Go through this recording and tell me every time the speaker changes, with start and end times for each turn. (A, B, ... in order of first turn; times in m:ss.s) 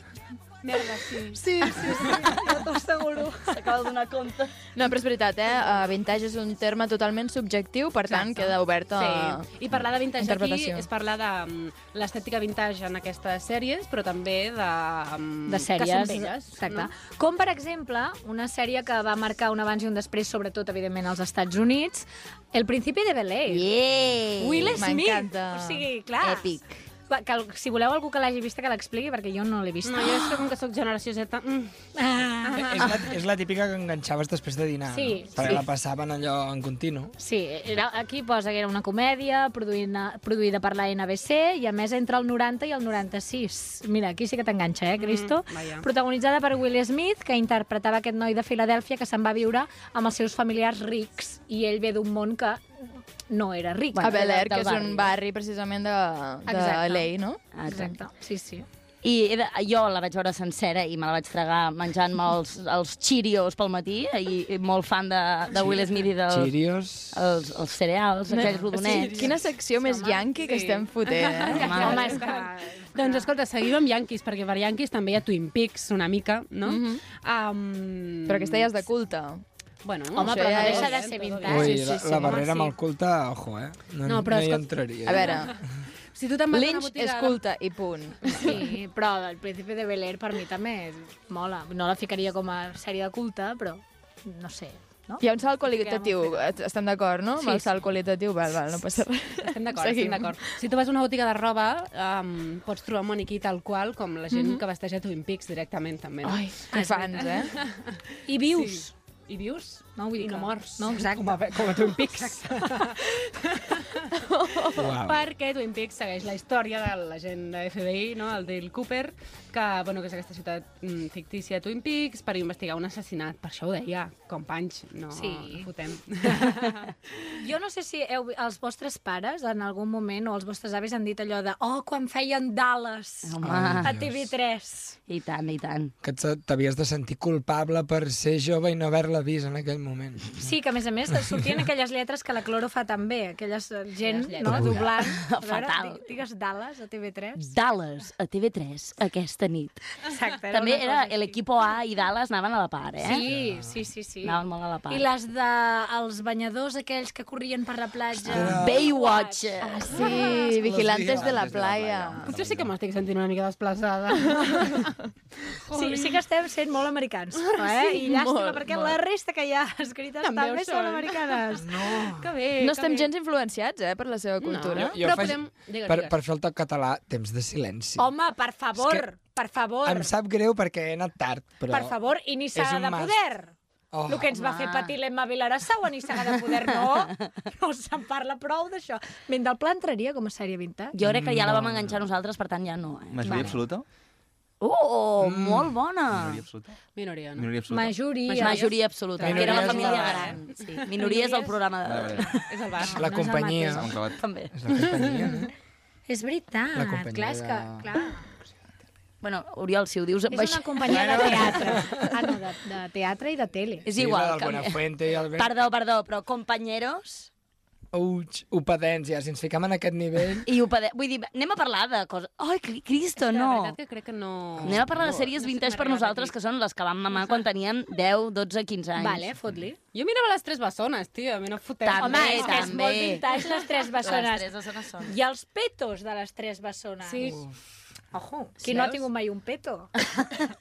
0:00.6-0:02.4 A
0:01.3-0:03.6 B
0:03.5-0:04.5 C
0:04.7-0:09.5 D
0:08.1-0:16.9 A
0:10.1-0:10.9 D
0:15.5-0:23.6 B
0:23.5-0:24.8 C
0:24.4-0:26.5 B
0:24.8-0:25.9 D
0:26.2-0:26.8 C
0:27.1-0:30.5 B
0:29.8-0:31.7 A
0:32.0-0:33.0 B
0:32.4-0:33.2 A
0:32.6-0:37.1 E
0:34.9-0:35.6 B
0:37.2-0:54.2 B
0:45.0-0:45.9 A
0:53.9-0:55.1 C
0:54.0-0:57.4 D
0:56.5-0:57.1 B
0:57.5-0:58.0 C
0:57.7-0:58.7 B
0:59.0-1:06.6 C
1:06.3-1:07.2 E
1:07.1-1:09.3 C
1:08.3-1:12.1 D
1:08.4-1:18.7 A
1:09.9-1:10.2 B
1:11.5-1:13.3 B
1:11.6-1:12.1 C
1:16.6-1:17.0 D
1:18.3-1:19.4 D
1:19.8-1:22.4 A
1:20.1-1:22.7 B
1:20.2-1:21.0 D
1:21.4-1:25.6 E
1:24.0-1:25.3 A
1:25.0-1:25.6 D
1:26.1-1:27.4 A
1:26.5-1:28.6 D
1:28.2-1:28.6 A
1:28.4-1:36.4 B
1:35.2-1:40.5 D
1:39.4-1:46.4 A
1:44.3-1:44.6 D
1:46.2-1:47.6 D
1:46.7-1:47.2 B
1:47.1-1:54.0 A
1:48.3-1:48.9 B
1:49.9-1:53.2 B
1:54.1-1:55.0 D
1:54.7-1:55.2 E
1:55.0-2:06.9 A
2:05.1-2:05.7 B
2:06.2-2:06.8 B
2:07.3-2:13.3 B
2:13.2-2:13.9 C
2:13.4-2:14.3 E
2:13.8-2:15.0 B
2:15.1-2:15.9 C
2:16.0-2:20.4 E
2:20.4-2:27.4 B
2:24.0-2:24.9 A
2:24.4-2:24.9 E
2:25.0-2:26.0 C
2:27.4-2:33.2 C
2:30.0-2:31.4 B
2:33.0-2:34.4 B
2:33.3-2:33.8 E
2:34.2-2:35.0 C
2:34.9-2:40.5 B
2:38.3-2:38.9 E
2:38.4-2:40.0 C
2:39.6-2:42.3 D
2:40.6-2:42.7 F
2:40.8-2:41.4 E
2:42.2-2:44.9 A
2:44.3-2:44.9 D
2:45.5-2:46.2 A
2:45.7-2:52.0 B
2:47.8-2:48.0 A
2:48.0-2:49.0 D
2:50.2-2:51.4 A
2:51.6-2:52.3 E
2:51.9-2:53.1 A
2:52.6-2:55.1 D
2:54.4-2:56.2 A
2:54.8-2:58.1 E
2:58.0-3:00.1 B
2:58.8-2:59.1 E
2:59.8-3:02.0 E
3:01.7-3:03.5 B
3:02.5-3:03.2 E
3:03.9-3:04.3 E
3:04.1-3:10.9 B
3:04.4-3:04.9 C
3:10.9-3:13.5 C
3:11.0-3:11.9 F
3:13.1-3:13.8 F
3:13.2-3:13.5 E
3:14.6-3:16.4 C
3:15.2-3:15.7 E
3:16.1-3:16.7 F
3:16.9-3:17.6 A
3:17.4-3:18.0 F
3:17.7-3:18.7 B
3:18.2-3:21.7 A
3:18.4-3:22.4 C
3:19.2-3:20.2 B
3:19.2-3:20.3 E
3:21.8-3:22.4 F
3:22.4-3:23.0 A
3:22.9-3:23.9 B
3:23.0-3:24.0 E
3:23.7-3:24.2 F
3:24.2-3:24.5 C
3:24.5-3:25.5 E
3:25.0-3:25.4 A
3:26.1-3:28.2 B
3:26.7-3:27.8 E
3:29.2-3:31.5 C
3:30.3-3:33.8 B
3:30.8-3:32.1 E
3:33.8-3:34.8 C
3:33.9-3:35.5 E
3:35.3-3:37.3 C
3:37.9-3:40.5 E
3:40.4-3:43.8 C
3:43.2-3:46.3 A
3:44.6-3:45.2 E
3:44.6-3:49.3 C
3:49.0-3:49.8 B
3:49.9-3:53.5 A
3:51.8-3:53.4 C
3:52.0-3:54.5 B
3:54.0-3:55.1 C
3:55.0-3:57.4 B
3:57.0-3:57.4 A
3:58.1-3:59.9 B
3:58.6-3:59.1 A
4:00.0-4:00.3 A